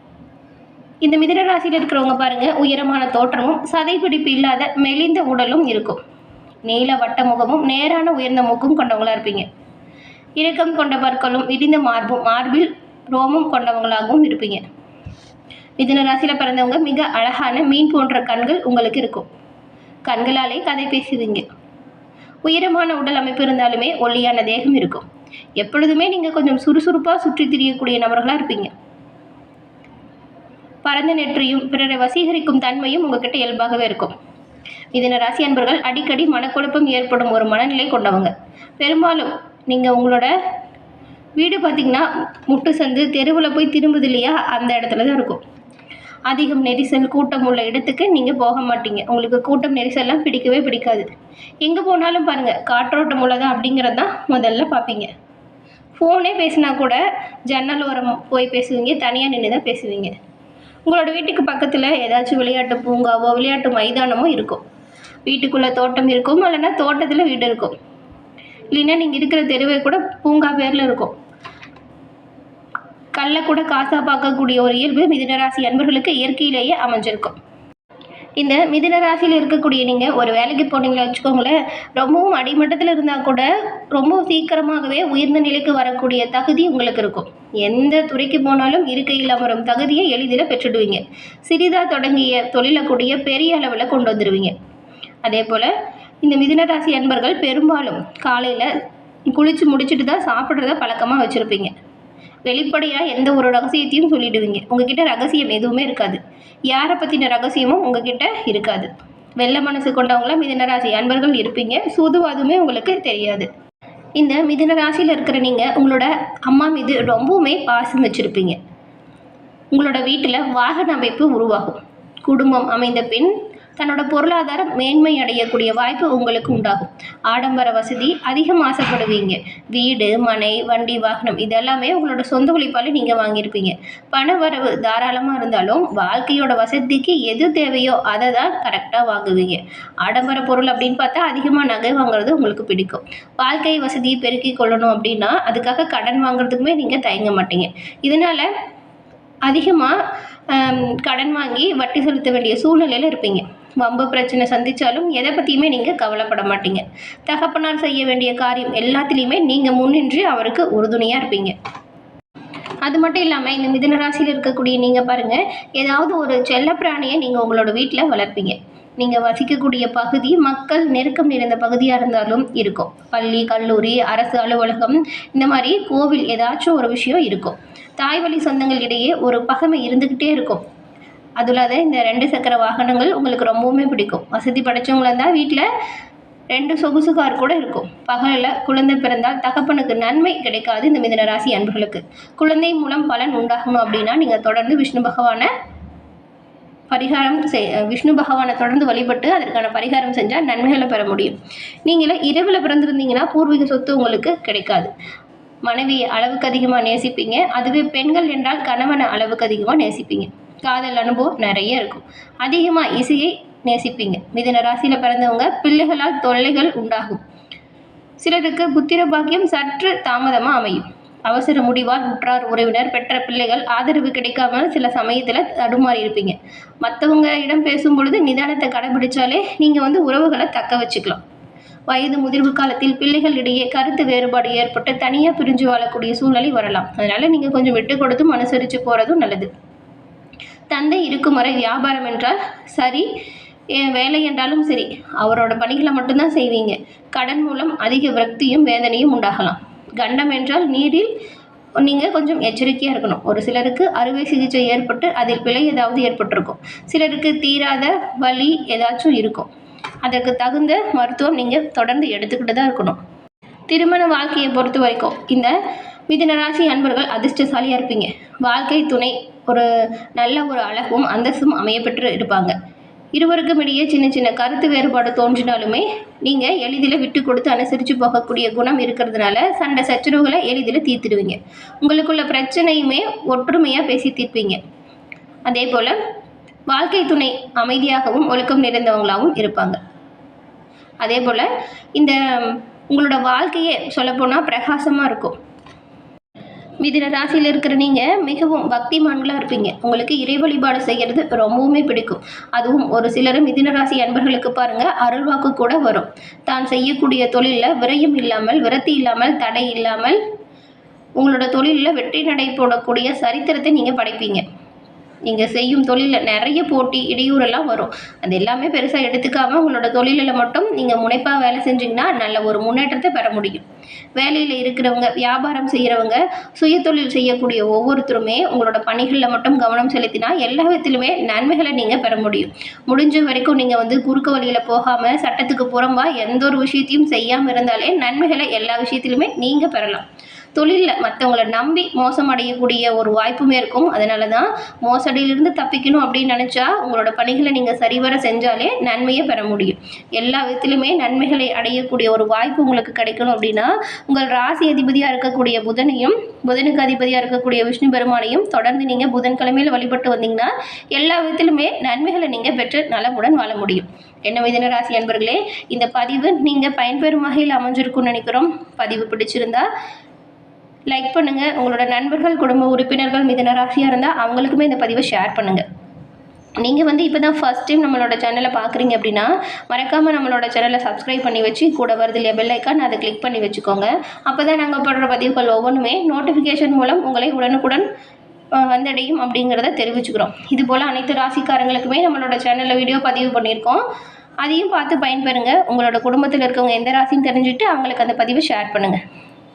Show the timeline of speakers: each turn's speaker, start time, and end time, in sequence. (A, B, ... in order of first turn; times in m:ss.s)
0:01.0-0:06.0 A
0:06.6-0:09.5 A
0:10.4-0:14.6 A
0:15.8-0:19.3 A
0:20.0-0:21.4 A
0:22.4-0:25.0 A
0:25.6-0:28.7 A
0:30.8-0:34.1 A
0:34.9-0:40.3 A
0:41.4-0:45.4 A
0:46.3-0:51.1 A
0:51.6-0:55.1 A
0:56.0-1:00.1 A
1:00.8-1:04.6 A
1:05.3-1:07.7 A
1:08.7-1:11.1 A
1:13.1-1:17.4 A
1:18.4-1:34.5 A
1:35.2-1:35.7 A
1:36.2-1:38.7 A
1:39.3-1:41.7 A
1:42.4-1:53.5 A
1:54.2-1:58.6 A
1:59.7-2:28.5 A
2:29.4-2:30.0 A
2:30.5-2:41.5 A
2:42.8-3:00.6 A
3:01.4-3:05.7 A
3:06.5-3:15.5 A
3:16.9-3:24.9 A
3:25.6-3:37.2 A
3:38.2-3:51.2 A
3:51.9-3:59.5 A
4:00.7-4:03.0 A
4:03.7-4:11.1 A
4:11.8-4:19.5 A
4:20.0-4:23.0 A
4:23.7-4:25.5 A
4:26.1-4:32.5 A
4:33.1-4:44.6 A
4:45.5-4:46.0 A
4:46.7-4:49.8 A
4:51.0-4:55.3 A
4:56.8-5:10.2 A
5:11.2-5:14.4 A
5:15.2-5:23.6 A
5:24.2-5:40.0 A
5:40.6-6:09.7 A
6:10.9-6:15.6 A
6:16.6-6:27.8 A
6:28.6-6:33.8 A
6:34.4-6:39.0 A